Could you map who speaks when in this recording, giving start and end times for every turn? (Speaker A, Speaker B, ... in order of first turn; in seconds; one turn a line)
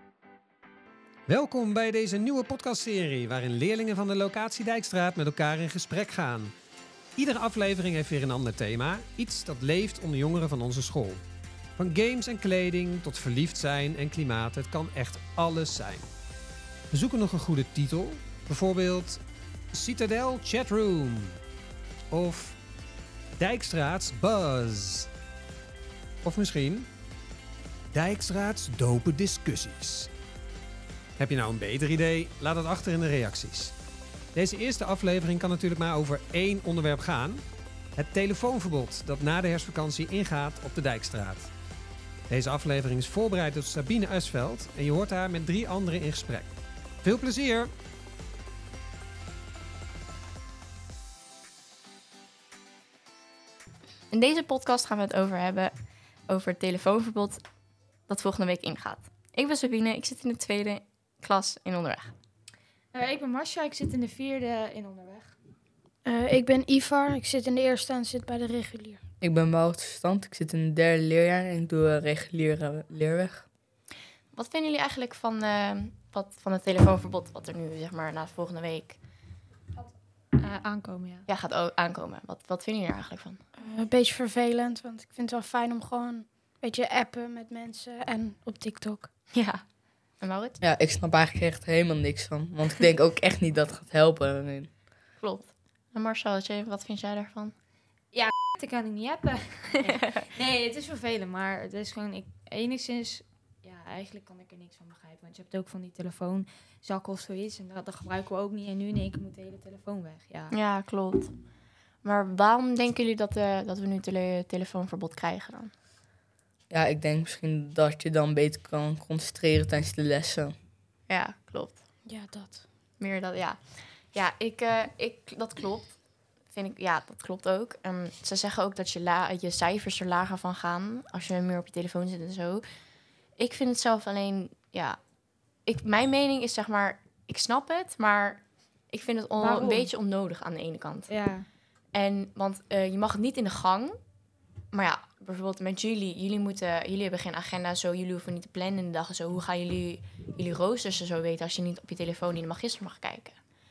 Speaker A: 1.3-6.5
Speaker A: 7.2-11.2
Speaker A: 11.8-16.1
Speaker A: 16.9-19.2
Speaker A: 19.7-21.3
Speaker A: 22.1-22.6
Speaker A: 23.4-25.1
Speaker A: 26.2-26.9
Speaker A: 27.9-30.1
Speaker A: 31.2-33.7
Speaker A: 34.3-37.4
Speaker A: 38.0-41.5
Speaker A: 42.3-47.7
Speaker B: 54.1-55.7
Speaker B: 56.3-57.4
Speaker B: 58.1-62.1
Speaker C: 62.9-65.3
Speaker D: 66.0-69.0
Speaker E: 69.2-73.4
Speaker B: 74.3-79.0
Speaker C: 80.4-81.2
Speaker B: 81.3-83.4
Speaker D: 83.6-89.1
Speaker B: 90.2-90.6
Speaker E: 90.6-94.7
Speaker B: 95.2-97.5
Speaker C: 98.1-110.5
Speaker B: 110.5-111.3
Speaker B: 112.0-115.7
Speaker E: 116.7-120.5
Speaker B: 121.1-121.8
Speaker D: 122.0-122.6
Speaker B: 123.0-123.6
Speaker B: 124.1-125.9
Speaker B: 126.5-132.6
Speaker B: 133.4-135.0
Speaker B: 135.7-141.1
Speaker C: 139.4-139.9
Speaker C: 141.1-141.4
Speaker B: 141.9-143.9
Speaker B: 144.7-153.3